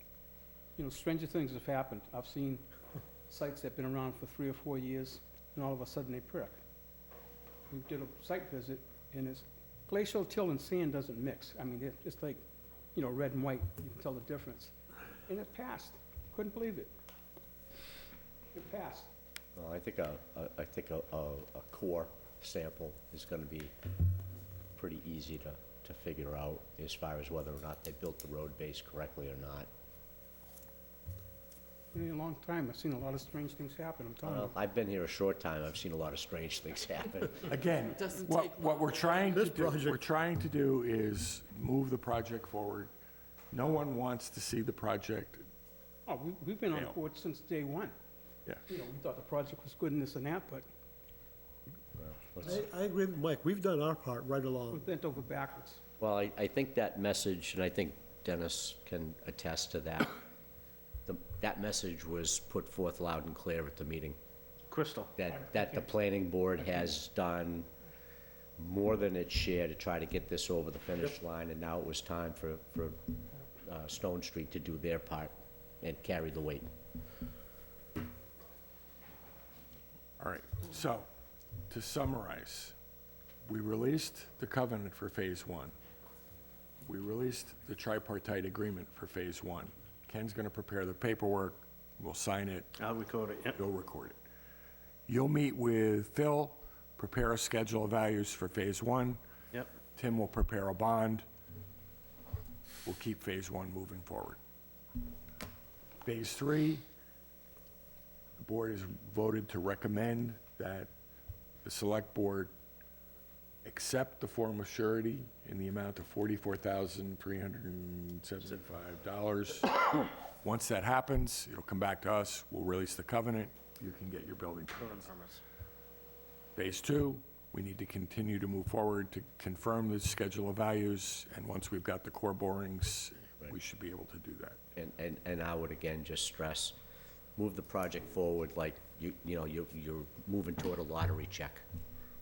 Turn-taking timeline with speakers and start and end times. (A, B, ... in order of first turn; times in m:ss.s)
0:00.8-0:02.6 A
0:03.3-0:06.6 A
0:07.7-0:12.4 A
0:12.9-0:14.7 A
0:15.3-0:16.9 A
0:18.5-0:19.1 A
0:19.6-0:23.7 B
0:24.8-0:29.7 B
0:31.9-0:34.5 A
0:34.2-0:37.4 B
0:37.4-0:42.9 C
0:39.3-0:40.0 D
0:43.5-0:45.4 C
0:46.1-0:47.9 A
0:48.7-0:50.7 A
0:52.0-0:52.4 B
0:52.4-0:54.8 D
0:54.7-0:55.8 A
0:56.0-1:00.1 B
1:01.1-1:04.2 B
1:04.7-1:05.1 E
1:05.2-1:07.7 B
1:08.6-1:13.0 B
1:13.6-1:16.7 B
1:20.2-1:21.1 C
1:21.7-1:22.7 C
1:23.5-1:25.7 C
1:26.8-1:32.7 C
1:32.8-1:33.6 E
1:33.6-1:34.2 C
1:35.1-1:39.2 C
1:40.0-1:41.3 C
1:42.8-1:44.4 C
1:46.0-1:46.8 C
1:48.4-1:50.9 C
1:51.6-1:52.5 C
1:53.6-2:05.1 C
2:04.8-2:05.4 E
2:06.6-2:14.6 C
2:14.8-2:16.8 B
2:17.4-2:21.6 B